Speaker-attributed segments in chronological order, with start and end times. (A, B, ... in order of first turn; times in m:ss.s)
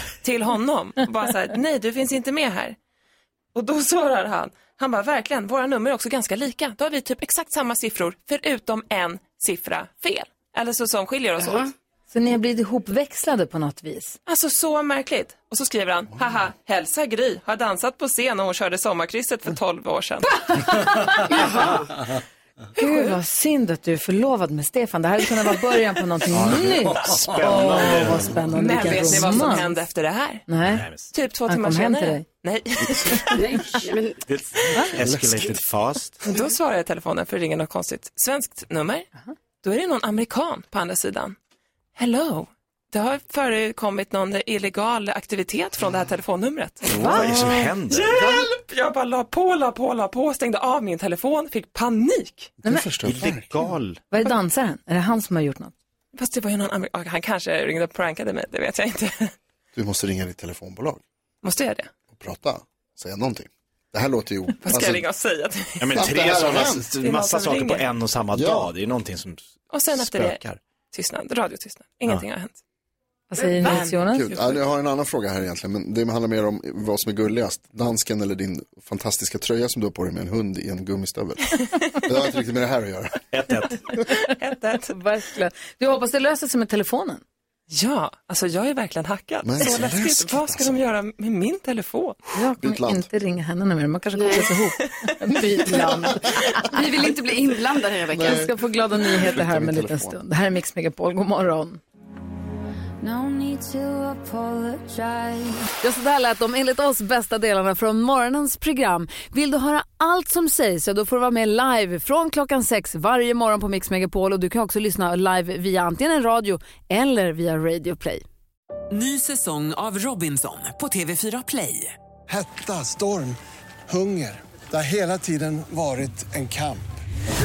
0:00.2-0:02.8 A
0:03.5-0:11.7 A
0:11.4-0:11.7 B
0:12.1-0:14.2 C
0:14.2-0:20.4 A
0:21.3-0:22.0 B
0:21.3-0:21.6 A
0:22.8-0:29.7 C
0:22.8-0:23.1 A
0:26.3-0:29.3 D
0:28.5-0:30.5 A
0:30.5-0:30.8 C
0:30.6-0:31.1 D
0:31.1-0:33.8 A
0:31.4-0:32.2 C
0:33.3-0:34.2 B
0:34.3-0:36.2 D
0:35.0-0:35.5 E
0:36.2-0:39.1 A
0:39.6-0:41.4 A
0:42.0-0:47.2 A
0:46.9-0:48.2 D
0:47.0-0:47.4 E
0:48.0-0:52.5 A
0:48.1-0:48.4 E
0:52.6-0:53.5 E
0:53.0-0:54.0 D
0:54.1-0:55.7 C
0:56.1-0:59.3 A
0:59.7-1:01.0 E
1:01.4-1:01.9 A
1:02.1-1:05.0 E
1:04.6-1:06.0 A
1:05.8-1:10.6 D
1:05.9-1:06.9 E
1:07.0-1:07.8 A
1:08.3-1:08.7 E
1:09.7-1:10.4 A
1:10.9-1:12.6 A
1:13.3-1:14.4 C
1:13.4-1:13.7 B
1:13.6-1:13.9 A
1:14.0-1:21.5 E
1:22.0-1:23.2 E
1:23.3-1:23.8 D
1:24.1-1:24.9 A
1:24.9-1:27.2 C
1:27.7-1:32.2 A
1:29.4-1:30.9 E
1:32.3-1:37.1 C
1:32.6-1:33.1 E
1:34.1-1:34.5 B
1:36.6-1:38.5 B
1:38.1-1:40.2 E
1:38.2-1:41.8 C
1:45.8-1:58.2 C
1:58.9-2:02.0 F
2:02.3-2:07.0 G